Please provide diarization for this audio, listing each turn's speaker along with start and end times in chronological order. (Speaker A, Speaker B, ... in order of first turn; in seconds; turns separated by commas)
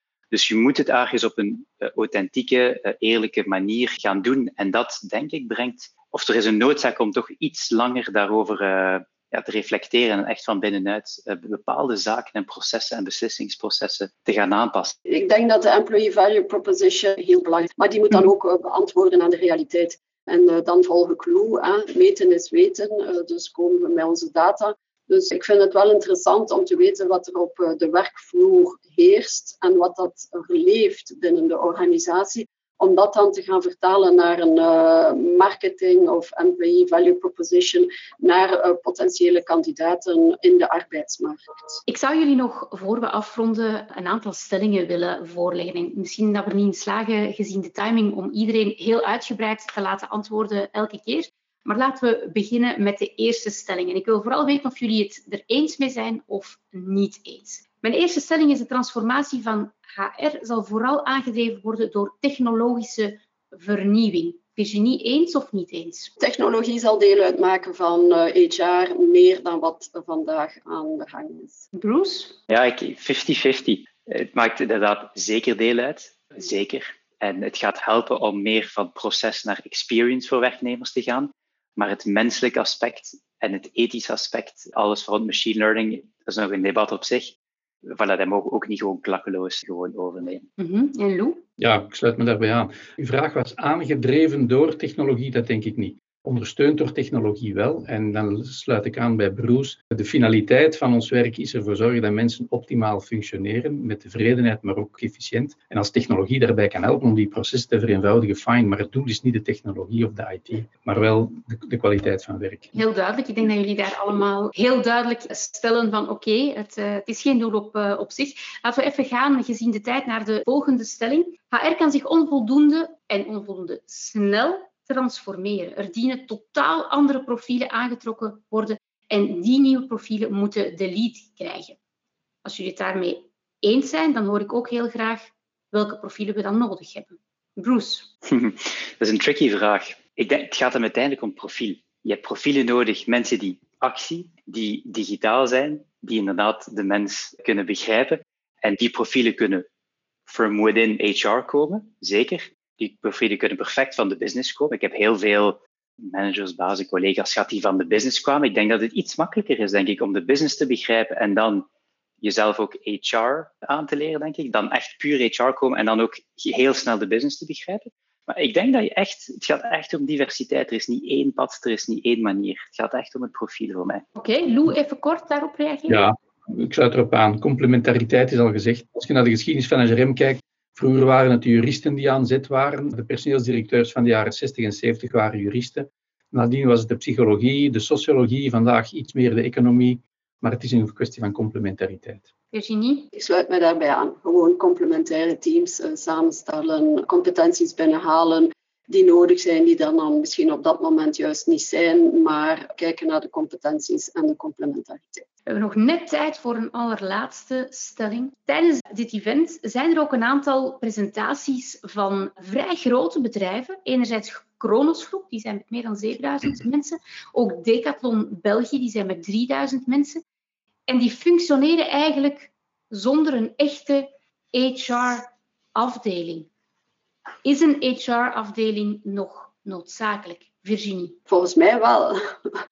Speaker A: 0.3-15.0, Speaker B: 15.1-41.8, Speaker C: 41.9-66.1, Speaker B: 66.2-71.7, Speaker C: 71.7-72.4, Speaker A: 72.5-90.5, Speaker C: 90.6-91.4, Speaker D: 91.6-112.8, Speaker C: 112.7-131.8, Speaker C: 132.4-138.1, Speaker A: 138.3-149.7, Speaker A: 150.3-161.7, Speaker A: 162.2-174.1, Speaker C: 174.2-176.1, Speaker D: 175.9-192.3, Speaker C: 192.5-193.1, Speaker B: 193.1-205.2, Speaker C: 205.5-220.2, Speaker C: 220.9-226.5, Speaker C: 227.4-231.2, Speaker B: 231.3-232.2